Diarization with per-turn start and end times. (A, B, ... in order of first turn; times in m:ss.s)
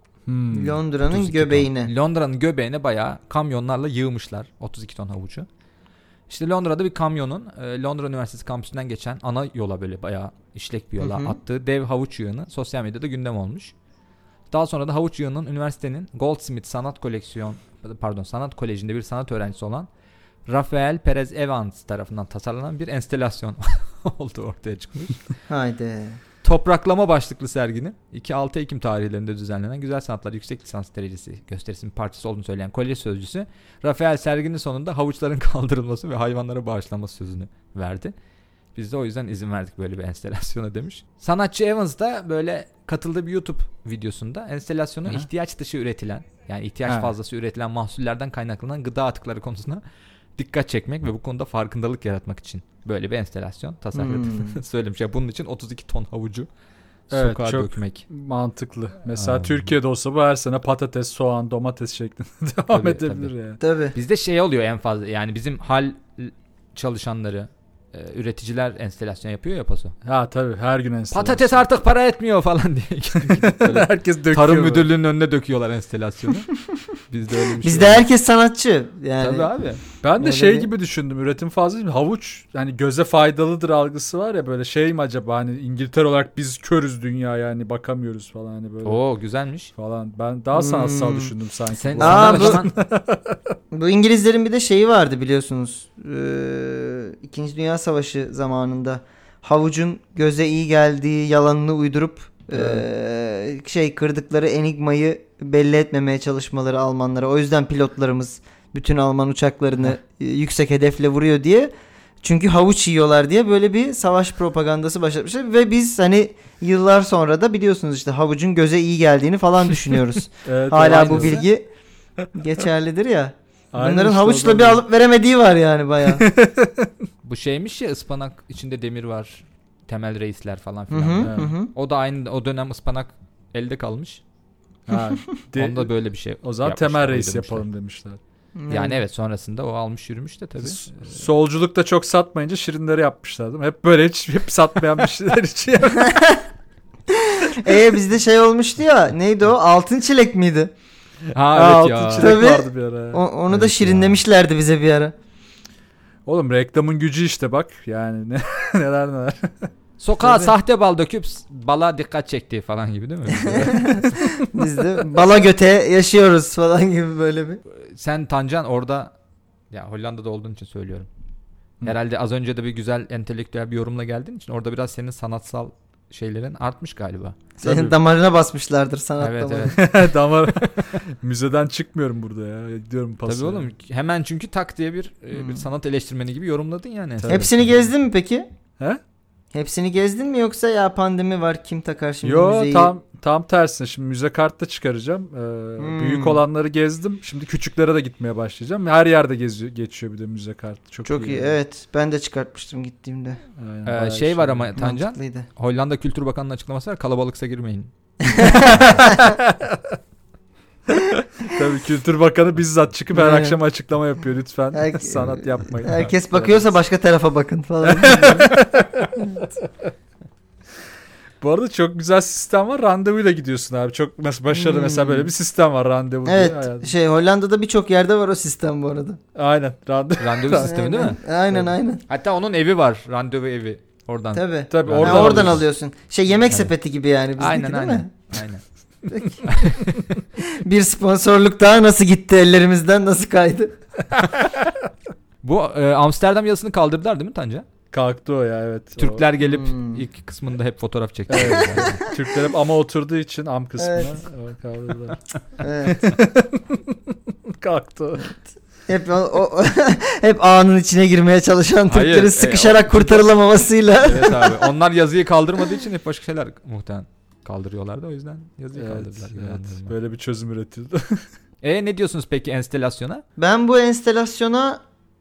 0:00.3-0:00.8 A
0:00.5-0:01.9 B
0:01.0-0:05.5 C
0:06.3-0:13.7 C
0:11.0-0:11.4 B
0:14.5-0:19.9 C
0:20.5-0:25.2 C
0:25.5-0:26.2 B
0:26.4-0:38.1 C
0:38.8-0:49.8 C
0:46.9-0:47.1 A
0:50.4-0:56.5 C
0:54.0-0:54.6 B
0:57.1-0:58.0 C
0:57.1-1:03.6 A
0:59.2-0:59.7 C
1:02.7-1:03.3 C
1:03.6-1:04.0 B
1:03.9-1:10.0 C
1:10.0-1:11.6 A
1:11.1-1:16.5 C
1:13.2-1:14.9 A
1:17.1-1:18.1 C
1:17.6-1:19.5 B
1:19.2-1:19.8 C
1:20.0-1:29.0 A
1:20.2-1:20.7 B
1:28.8-1:29.7 C
1:29.8-1:33.4 A
1:30.5-1:31.3 B
1:31.7-1:32.7 C
1:32.0-1:32.7 B
1:33.7-1:51.7 B
1:52.2-2:01.7 B
2:00.4-2:01.4 A
2:00.8-2:01.5 C
2:02.3-2:06.3 B
2:03.7-2:04.8 A
2:06.1-2:06.9 A
2:07.2-2:14.2 C
2:10.9-2:11.7 B
2:11.2-2:11.5 A
2:14.9-2:18.2 A
2:15.6-2:17.6 C
2:18.6-2:19.0 B
2:18.7-2:20.8 C
2:20.6-2:26.2 A
2:26.0-2:26.4 B
2:27.1-2:30.7 B
2:31.3-2:34.1 A
2:31.3-2:32.4 C
2:32.2-2:35.1 B
2:33.5-2:34.0 C
2:36.3-2:39.7 A
2:40.0-2:43.9 C
2:40.2-2:40.5 B
2:43.3-2:44.5 A
2:43.5-2:47.6 B
2:47.7-2:49.1 C
2:49.7-2:51.1 C
2:51.8-2:57.4 C
2:57.6-2:59.8 B
2:57.6-2:58.0 A
2:59.2-2:59.9 C
2:59.7-3:03.7 A
3:00.5-3:00.8 C
3:03.2-3:07.5 C
3:05.3-3:05.6 B
3:07.2-3:07.7 A
3:07.3-3:08.5 B
3:09.5-3:12.9 B
3:12.2-3:21.6 A
3:15.8-3:16.4 B
3:21.1-3:23.4 B
3:23.6-3:24.8 A
3:23.8-3:29.2 C
3:24.8-3:25.5 B
3:28.2-3:29.4 B
3:29.0-3:29.8 A
3:30.9-3:36.7 A
3:33.1-3:33.6 B
3:34.7-3:38.6 B
3:37.8-3:39.4 A
3:39.2-3:39.4 B
3:41.4-3:46.9 A
3:44.5-3:45.3 B
3:46.2-3:49.2 B
3:49.4-3:50.7 A
3:50.2-3:51.2 C
3:50.6-3:52.0 B
3:52.1-3:55.6 C
3:54.3-3:58.1 B
3:54.7-3:55.6 A
3:57.4-3:58.6 C
3:59.1-3:59.4 B
3:59.4-4:00.2 C
4:00.4-4:03.8 B
4:05.4-4:07.7 C
4:07.9-4:09.3 A
4:09.0-4:12.0 C
4:09.4-4:10.0 B
4:11.3-4:15.2 A
4:11.4-4:12.4 B
4:13.8-4:14.1 B
4:15.6-4:16.1 B
4:15.8-4:18.3 A
4:18.9-4:24.6 B
4:21.9-4:23.3 C
4:24.0-4:30.0 C
4:28.8-4:31.2 A
4:31.6-4:33.2 C
4:33.4-4:34.8 B